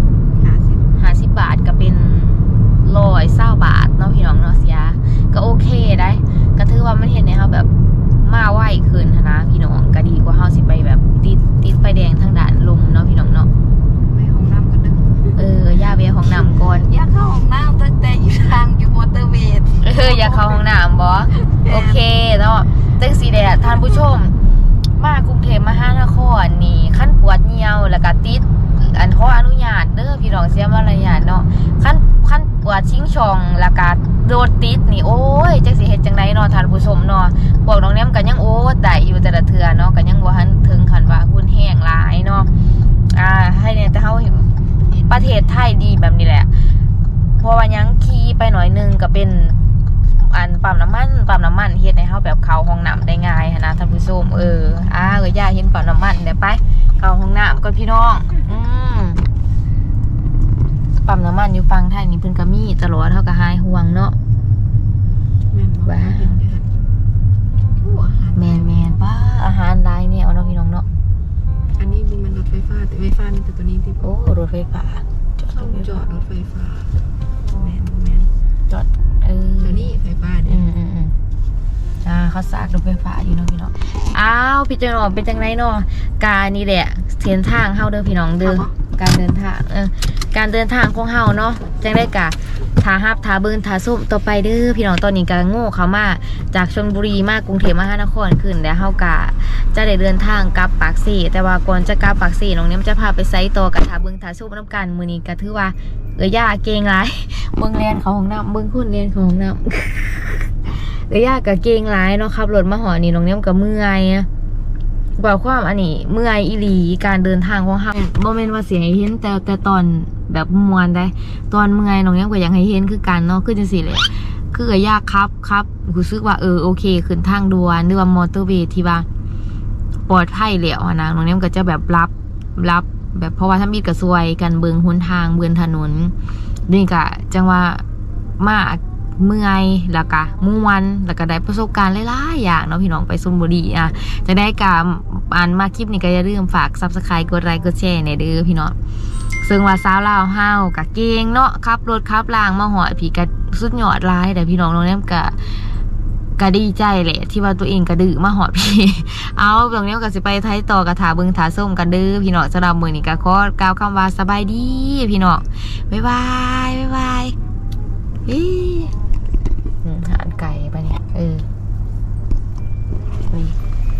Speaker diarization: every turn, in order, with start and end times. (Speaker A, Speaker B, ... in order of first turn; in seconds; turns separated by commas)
Speaker A: 0.3-0.9, Speaker B: 1.0-7.7, Speaker B: 8.2-13.5, Speaker A: 14.1-15.4, Speaker B: 15.3-16.9, Speaker A: 16.2-20.6, Speaker B: 19.8-24.4, Speaker A: 21.3-22.1, Speaker B: 25.0-42.5, Speaker B: 43.1-44.5, Speaker A: 44.9-45.5, Speaker B: 45.1-46.7, Speaker B: 47.4-49.6, Speaker B: 50.1-59.2, Speaker B: 61.0-64.2, Speaker A: 65.5-66.7, Speaker B: 65.8-66.4, Speaker A: 67.8-68.8, Speaker B: 68.3-70.9, Speaker A: 71.8-74.0, Speaker B: 74.0-76.0, Speaker A: 75.5-78.3, Speaker B: 78.7-79.9, Speaker A: 79.6-80.6, Speaker B: 80.5-81.1, Speaker B: 82.0-114.3, Speaker A: 88.4-88.7, Speaker B: 115.2-129.1, Speaker B: 130.1-136.1, Speaker B: 136.7-137.8, Speaker B: 138.4-148.8, Speaker B: 149.3-155.7, Speaker B: 156.4-167.3, Speaker B: 168.2-168.9, Speaker B: 169.8-171.5, Speaker B: 173.3-173.6